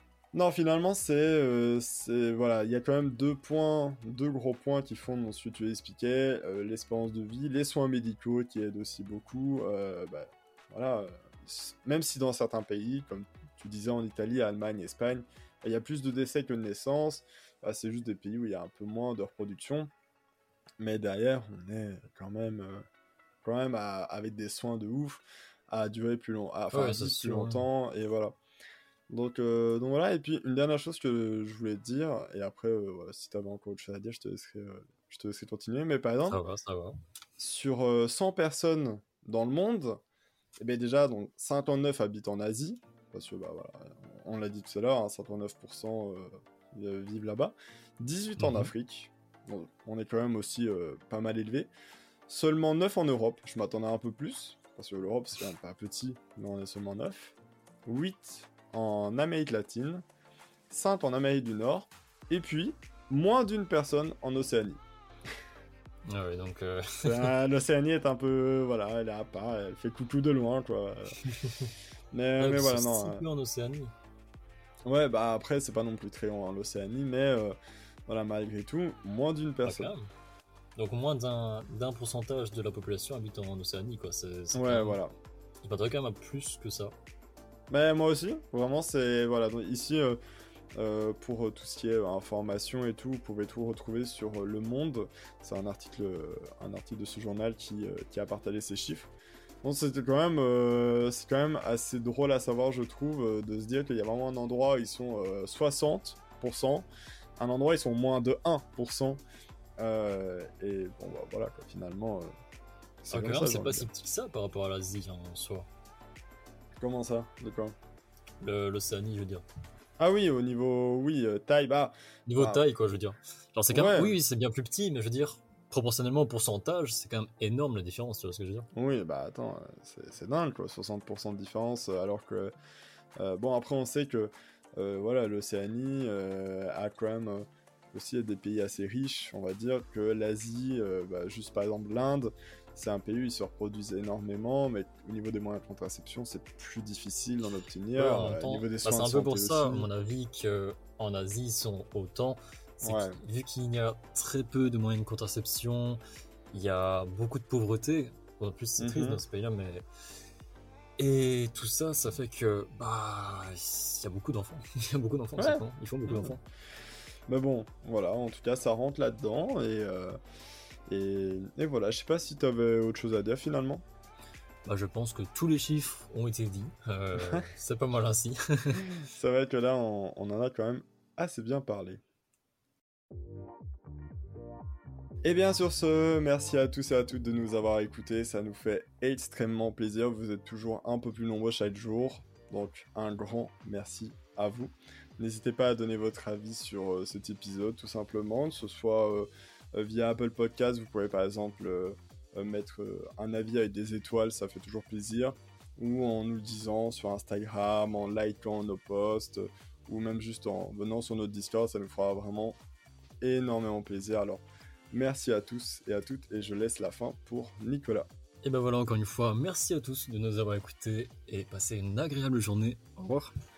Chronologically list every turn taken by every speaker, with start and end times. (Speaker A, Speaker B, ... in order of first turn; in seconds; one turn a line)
Speaker A: 0.3-19.9
Speaker A: 20.8-22.8
Speaker A: 23.4-28.4
Speaker B: 26.7-27.7
Speaker A: 29.1-36.4
Speaker B: 36.3-37.0
Speaker A: 37.4-40.0
Speaker A: 40.6-51.7
Speaker B: 48.4-48.7
Speaker A: 52.3-57.4
Speaker A: 57.9-60.0
Speaker A: 60.7-64.8
Speaker B: 66.1-67.3
Speaker A: 67.0-71.2
Speaker B: 71.2-71.7
Speaker A: 72.1-73.2
Speaker B: 72.4-73.9
Speaker A: 74.9-77.6
Speaker A: 78.1-79.9
Speaker B: 79.7-80.1
Speaker B: 80.8-85.0
Speaker A: 84.5-85.1
Speaker B: 85.6-86.9
Speaker A: 87.7-90.2
Speaker A: 90.8-99.1
Speaker A: 99.6-109.2
Speaker A: 109.8-112.3
Speaker A: 113.0-113.9
Speaker B: 113.1-115.7
Speaker A: 116.8-117.8
Speaker B: 118.4-119.4
Speaker A: 120.0-122.6
Speaker B: 122.3-128.7
Speaker A: 123.7-124.2
Speaker A: 128.8-132.5
Speaker A: 133.2-149.9
Speaker B: 147.9-156.0
Speaker A: 152.8-153.2
Speaker B: 156.5-159.8
Speaker A: 158.8-159.2
Speaker B: 161.0-166.4
Speaker A: 165.4-166.3
Speaker A: 167.3-170.2
Speaker A: 170.9-173.8
Speaker B: 174.7-178.9
Speaker A: 177.2-177.4
Speaker A: 178.8-182.0
Speaker A: 185.2-212.6
Speaker A: 213.2-218.1
Speaker B: 218.4-223.3